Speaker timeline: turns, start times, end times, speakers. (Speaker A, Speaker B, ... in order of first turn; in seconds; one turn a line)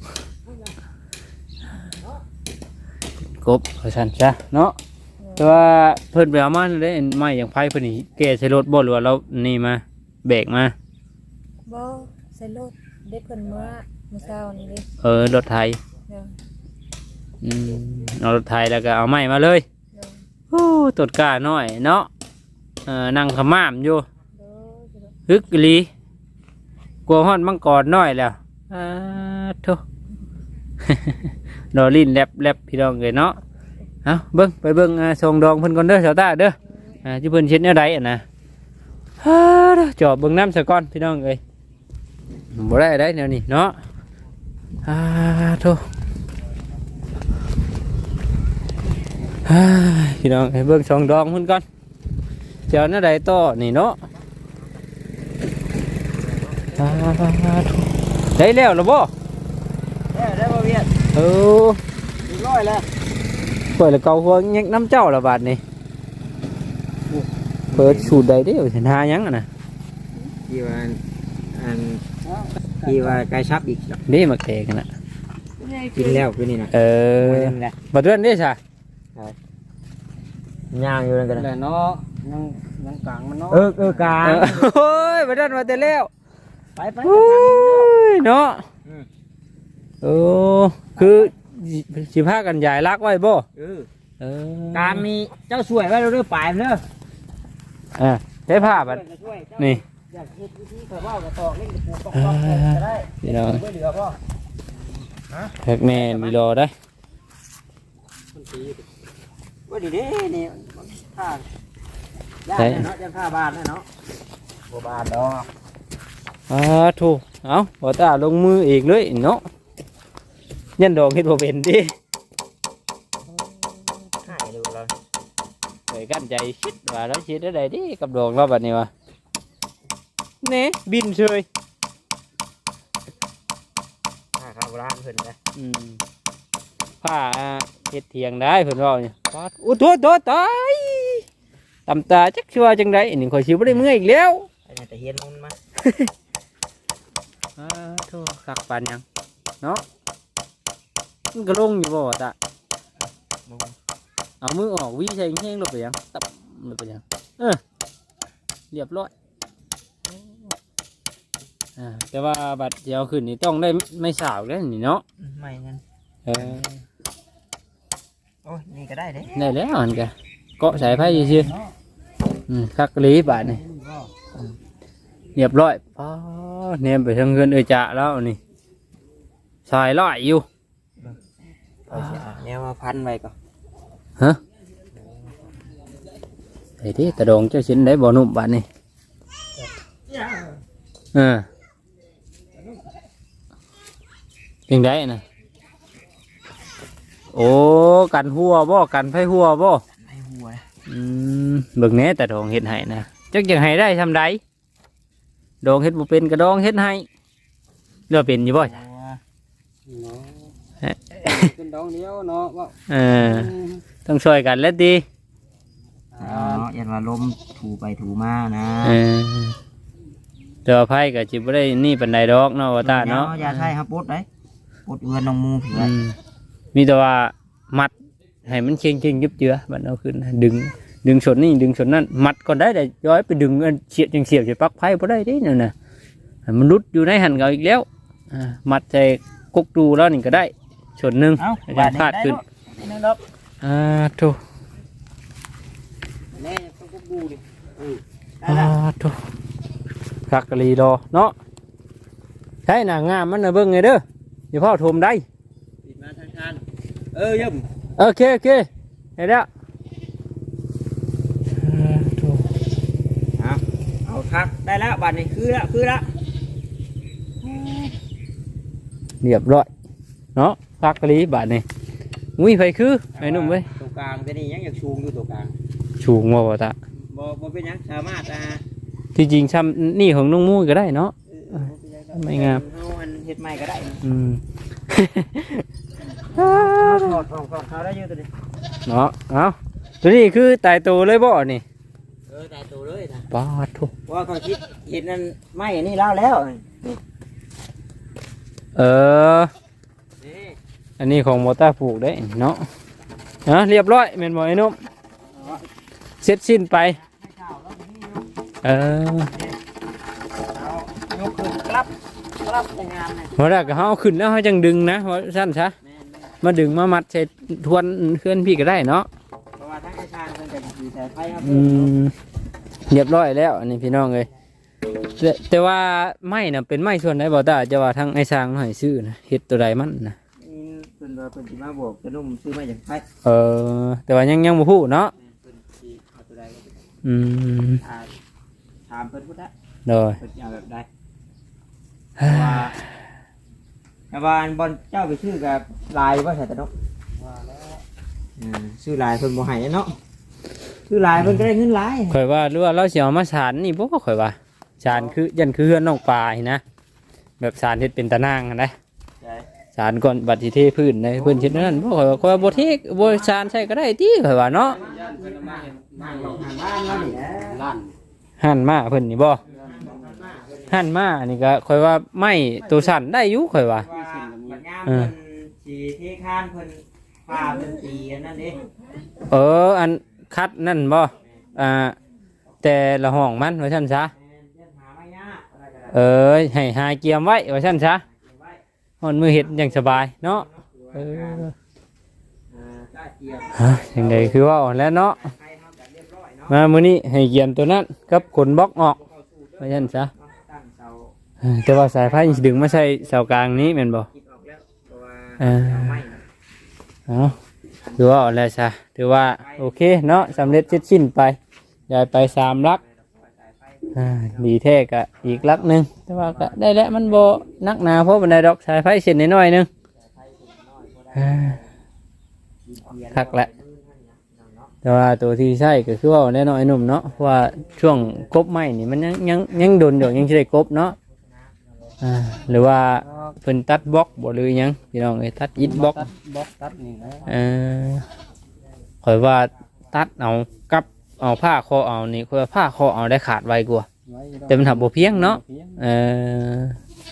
Speaker A: 3.4-4.7
Speaker B: 5.2-5.5
Speaker A: 5.4-10.7
Speaker B: 11.7-14.9
Speaker A: 15.0-15.8
Speaker A: 17.4-19.6
Speaker B: 19.9-20.2
Speaker A: 20.5-22.1
Speaker A: 22.9-24.0
Speaker B: 24.4-25.1
Speaker A: 25.3-25.9
Speaker A: 27.1-29.8
Speaker A: 30.8-33.4
Speaker A: 34.0-38.2
Speaker A: 39.2-41.4
Speaker A: 42.5-43.8
Speaker A: 44.8-45.8
Speaker A: 49.4-51.6
Speaker A: 52.7-54.0
Speaker C: 56.3-57.0
Speaker A: 56.8-59.1
Speaker C: 60.1-60.9
Speaker A: 61.1-61.8
Speaker C: 62.2-62.9
Speaker A: 63.7-65.6
Speaker C: 67.7-68.2
Speaker A: 67.7-69.5
Speaker C: 70.3-71.0
Speaker C: 71.5-72.0
Speaker D: 72.2-73.2
Speaker C: 72.8-74.0
Speaker A: 74.1-74.9
Speaker B: 75.6-76.2
Speaker C: 75.9-77.8
Speaker A: 76.7-78.6
Speaker C: 80.7-81.5
Speaker D: 81.3-84.3
Speaker C: 83.5-84.8
Speaker A: 84.2-86.1
Speaker C: 86.8-87.9
Speaker A: 87.0-88.7
Speaker A: 90.0-93.5
Speaker C: 91.0-91.3
Speaker C: 93.5-93.9
Speaker A: 94.2-95.0
Speaker C: 94.7-96.8
Speaker A: 98.0-99.0
Speaker C: 98.5-104.2
Speaker A: 102.1-103.6
Speaker C: 105.3-106.4
Speaker A: 105.6-106.7
Speaker D: 108.3-108.9
Speaker C: 109.7-111.4
Speaker C: 112.4-113.8
Speaker A: 112.5-112.8
Speaker C: 114.7-115.5
Speaker A: 116.5-119.4
Speaker A: 120.8-121.9
Speaker C: 124.2-124.9
Speaker A: 125.9-128.9
Speaker A: 130.4-131.4
Speaker C: 134.3-135.3
Speaker A: 135.6-136.0
Speaker A: 137.0-141.2
Speaker A: 141.8-144.5
Speaker C: 144.7-145.6
Speaker A: 145.8-146.1
Speaker A: 147.6-149.0
Speaker A: 151.3-152.3
Speaker C: 153.5-153.8
Speaker A: 154.4-157.6
Speaker A: 158.7-159.1
Speaker A: 161.8-165.0
Speaker C: 165.2-165.8
Speaker A: 166.2-166.8
Speaker C: 166.3-166.6
Speaker C: 168.4-169.4
Speaker A: 169.3-171.5
Speaker D: 170.9-171.3
Speaker A: 172.5-173.6
Speaker A: 175.3-178.4
Speaker A: 179.7-180.4
Speaker C: 181.9-183.3
Speaker A: 186.8-188.7
Speaker C: 190.1-190.5
Speaker A: 191.1-191.4
Speaker A: 194.7-195.2
Speaker A: 197.3-199.8
Speaker C: 200.0-200.6
Speaker A: 200.9-204.4
Speaker A: 205.6-207.1
Speaker A: 208.1-208.7
Speaker C: 208.5-209.2
Speaker D: 209.8-210.5
Speaker A: 210.8-211.5
Speaker D: 211.2-213.8
Speaker A: 212.9-213.5
Speaker A: 214.0-215.0
Speaker D: 216.1-216.7
Speaker C: 216.2-219.0
Speaker A: 218.8-219.6
Speaker A: 220.6-223.7
Speaker C: 222.8-224.2
Speaker C: 224.8-225.9
Speaker A: 225.7-226.2
Speaker A: 226.7-227.9
Speaker A: 228.4-235.7
Speaker A: 236.4-242.4
Speaker C: 241.4-243.2
Speaker A: 243.6-244.4
Speaker C: 246.3-248.8
Speaker A: 248.4-249.2
Speaker A: 250.3-251.3
Speaker A: 252.7-255.2
Speaker C: 255.8-257.6
Speaker A: 258.0-259.5
Speaker A: 261.6-262.5
Speaker C: 263.4-266.1
Speaker C: 267.4-267.9
Speaker A: 269.2-269.7
Speaker A: 270.3-271.6
Speaker A: 272.4-273.7
Speaker C: 273.1-275.5
Speaker A: 276.0-276.8
Speaker C: 277.1-278.6
Speaker A: 279.1-281.1
Speaker C: 281.3-284.0
Speaker A: 282.1-282.6
Speaker A: 284.0-285.6
Speaker A: 286.3-287.2
Speaker C: 286.3-288.3
Speaker A: 288.9-291.6
Speaker C: 292.3-293.3
Speaker A: 293.3-293.9
Speaker C: 294.1-297.0
Speaker A: 298.7-299.5
Speaker C: 300.2-300.6
Speaker A: 301.0-302.7
Speaker A: 303.4-304.8
Speaker C: 305.3-305.6
Speaker A: 306.2-307.0
Speaker C: 307.0-308.3
Speaker A: 308.6-309.3
Speaker C: 309.3-309.6
Speaker C: 310.5-313.8
Speaker A: 313.4-315.7
Speaker C: 315.8-316.3
Speaker A: 316.4-319.1
Speaker C: 319.6-321.9
Speaker A: 321.4-322.1
Speaker A: 322.9-324.3
Speaker A: 325.2-330.2
Speaker C: 330.4-333.0
Speaker A: 333.2-335.1
Speaker C: 335.1-336.8
Speaker A: 337.0-337.8
Speaker C: 337.8-338.1
Speaker C: 338.9-339.5
Speaker A: 339.9-340.2
Speaker C: 340.2-340.9
Speaker A: 342.2-342.9
Speaker C: 342.2-342.7
Speaker C: 344.1-346.7
Speaker D: 347.1-347.8
Speaker C: 348.4-349.9
Speaker C: 350.9-352.1
Speaker A: 351.2-351.5
Speaker A: 352.1-356.6
Speaker C: 354.8-355.2
Speaker A: 357.4-358.7
Speaker A: 359.7-364.8
Speaker C: 361.1-362.8
Speaker C: 364.7-367.6
Speaker D: 364.7-367.9
Speaker A: 368.4-369.4
Speaker C: 369.5-370.8
Speaker D: 369.5-369.9
Speaker A: 370.7-373.9
Speaker C: 372.6-373.0
Speaker C: 373.8-378.6
Speaker D: 373.9-374.6
Speaker A: 374.9-375.1
Speaker A: 379.3-381.9
Speaker A: 382.6-384.1
Speaker C: 384.1-385.9
Speaker A: 385.9-388.0
Speaker C: 388.1-388.6
Speaker A: 389.0-391.5
Speaker C: 389.3-391.4
Speaker C: 392.5-394.4
Speaker A: 393.5-395.2
Speaker C: 395.1-396.6
Speaker A: 396.5-399.0
Speaker C: 399.0-401.1
Speaker A: 399.6-400.1
Speaker A: 401.4-404.1
Speaker C: 401.9-406.2
Speaker A: 405.4-406.0
Speaker A: 407.1-407.3
Speaker C: 407.8-408.1
Speaker A: 408.0-411.4
Speaker C: 409.2-410.8
Speaker A: 411.9-412.8
Speaker C: 412.2-414.5
Speaker A: 413.9-419.7
Speaker C: 416.2-417.3
Speaker C: 419.9-421.7
Speaker A: 421.1-421.6
Speaker C: 422.6-424.7
Speaker A: 423.1-423.5
Speaker A: 424.8-431.0
Speaker A: 432.0-436.1
Speaker D: 433.0-433.4
Speaker D: 435.6-437.3
Speaker A: 437.3-438.0
Speaker A: 439.0-443.9
Speaker D: 444.1-445.8
Speaker A: 444.5-446.8